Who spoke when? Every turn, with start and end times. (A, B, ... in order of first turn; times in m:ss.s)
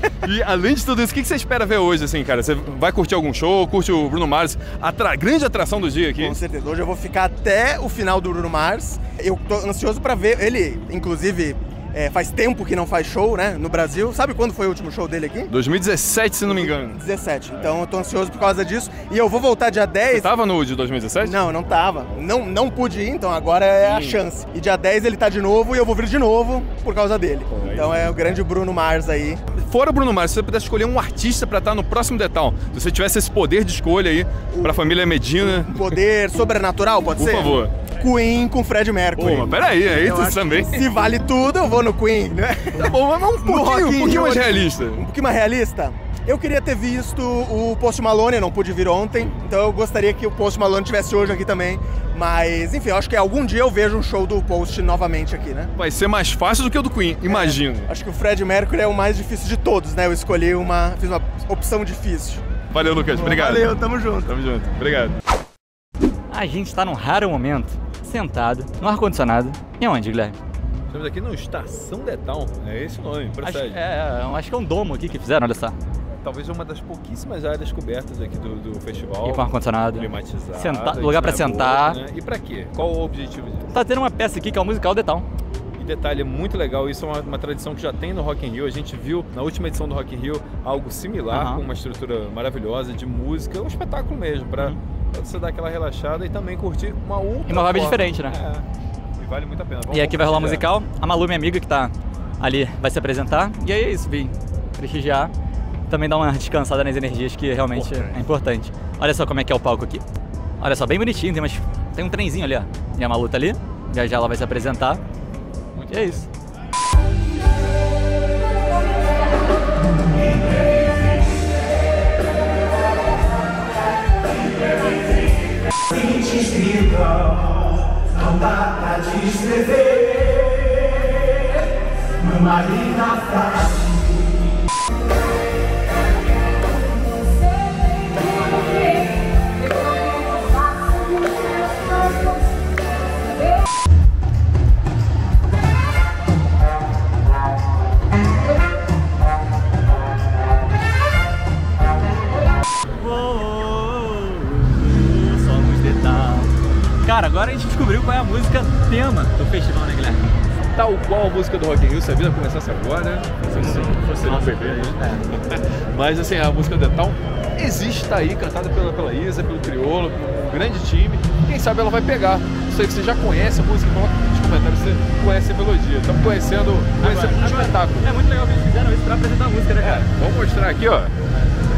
0:00.2-0:06.4 A
0:06.2-0:15.5 B
0:15.5-0:17.0 A
0:16.5-0:20.3 B
0:20.1-0:21.4 A
0:21.2-0:29.4 B
0:23.8-0:24.2 A
0:27.5-0:28.1 A
0:29.5-0:35.9 A
0:34.5-0:34.8 B
0:35.4-0:55.7 B
0:37.2-0:37.7 A
0:39.2-0:40.8 A
0:42.7-0:45.0 A
0:55.8-0:57.9 A
0:57.2-1:02.4 B
1:02.7-1:03.7 A
1:03.1-1:04.3 B
1:04.2-1:05.2 A
1:06.3-1:10.4 C
1:10.9-1:13.8 A
1:13.4-1:15.8 C
1:16.2-1:23.7 A
1:19.2-1:22.0 C
1:23.7-1:25.3 C
1:25.8-1:38.7 A
1:31.3-1:31.6 C
1:37.5-1:38.4 C
1:39.2-1:40.7 A
1:39.9-1:45.3 C
1:45.9-1:50.0 C
1:47.7-1:48.2 A
1:50.6-1:55.0 C
1:55.8-1:56.1 A
1:55.9-1:56.2 C
2:09.0-2:09.7 B
2:12.5-2:13.2 B
2:33.0-2:40.3 C
2:40.5-2:58.1 A
2:43.5-2:45.2 C
2:57.0-3:00.1 C
2:59.8-3:01.1 A